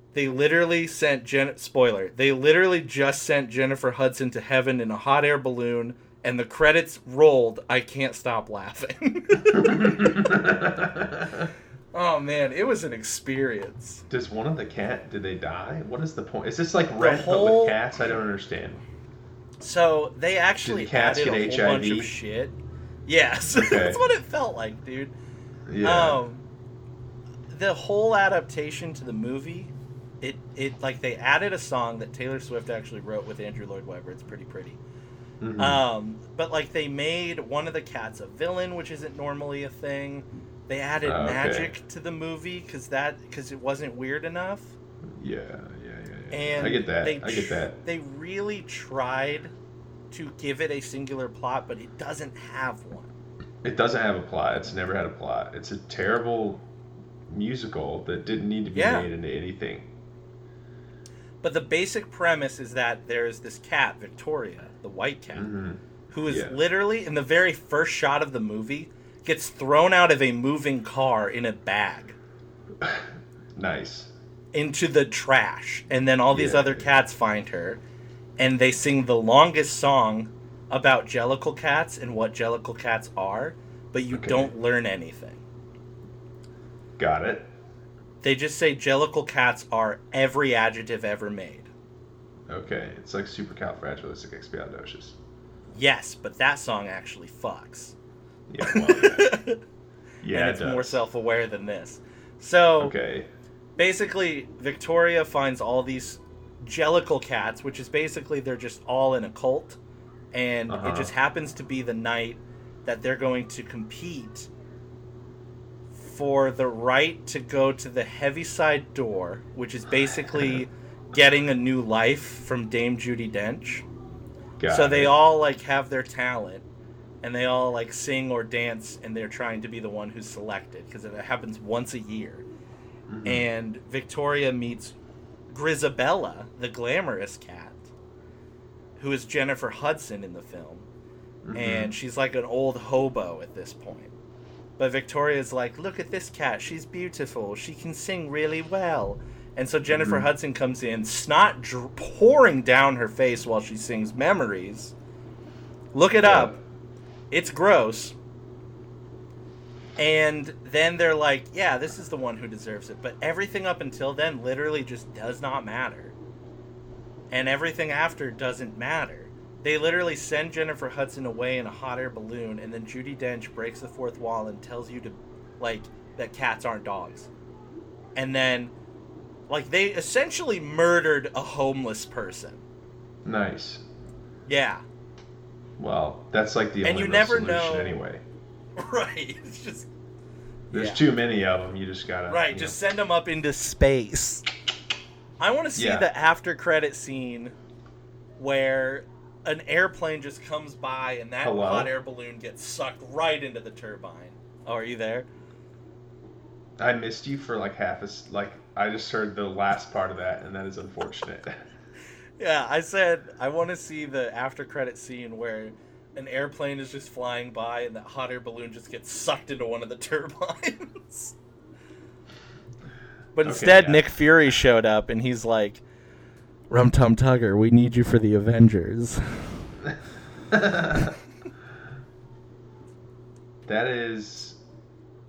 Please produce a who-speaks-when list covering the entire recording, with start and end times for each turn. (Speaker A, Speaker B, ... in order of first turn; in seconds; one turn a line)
Speaker A: 0.1-10.2
Speaker B: 9.4-11.5
Speaker A: 11.9-14.1
Speaker B: 14.1-18.8
Speaker A: 17.0-17.8
Speaker A: 19.6-22.6
Speaker B: 20.6-22.1
Speaker A: 23.1-25.1
Speaker B: 23.6-24.0
Speaker B: 25.7-26.2
Speaker A: 25.8-26.4
Speaker A: 27.5-34.8
Speaker B: 35.4-35.8
Speaker A: 35.6-44.8
Speaker B: 41.0-41.8
Speaker B: 45.0-47.8
Speaker A: 46.3-49.5
Speaker A: 50.1-53.1
Speaker B: 53.6-56.6
Speaker B: 57.3-59.9
Speaker A: 58.7-59.1
Speaker A: 61.4-65.5
Speaker B: 65.3-66.6
Speaker A: 66.1-72.2
Speaker B: 72.8-74.1
Speaker A: 74.5-77.8
Speaker B: 76.3-76.9
Speaker A: 78.4-85.4
Speaker B: 84.1-84.5
Speaker B: 87.0-87.5
Speaker A: 88.2-91.7
Speaker B: 92.5-95.2
Speaker A: 95.7-98.0
Speaker B: 98.5-99.4
Speaker A: 98.6-99.6
Speaker B: 100.2-101.0
Speaker A: 100.3-102.9
Speaker B: 102.8-103.3
Speaker A: 103.8-109.8
Speaker A: 110.3-114.5
Speaker B: 110.7-111.1
Speaker A: 115.9-123.8
Speaker B: 120.4-120.6
Speaker B: 124.6-125.2
Speaker A: 124.7-126.6
Speaker A: 127.2-132.4
Speaker B: 133.1-133.5
Speaker A: 133.2-134.9
Speaker A: 135.5-137.9
Speaker A: 139.0-140.9
Speaker B: 141.4-141.9
Speaker A: 141.5-144.1
Speaker A: 144.8-154.9
Speaker B: 149.9-150.3
Speaker A: 155.9-156.6
Speaker B: 156.2-156.6
Speaker A: 157.3-158.1
Speaker A: 160.0-166.1
Speaker A: 167.3-177.3
Speaker A: 178.2-178.7
Speaker A: 179.5-182.6
Speaker B: 183.2-183.8
Speaker A: 184.5-184.8
Speaker B: 185.8-188.2
Speaker A: 186.8-188.0
Speaker A: 188.8-189.9
Speaker A: 190.7-191.0
Speaker B: 190.7-192.8
Speaker A: 192.3-194.4
Speaker A: 195.4-197.6
Speaker B: 195.8-196.1
Speaker A: 198.4-205.3
Speaker B: 201.4-201.9
Speaker B: 206.8-211.6
Speaker A: 212.4-221.4
Speaker A: 223.3-225.8
Speaker B: 223.4-224.1
Speaker A: 226.7-229.5
Speaker B: 230.5-231.1
Speaker B: 233.7-234.6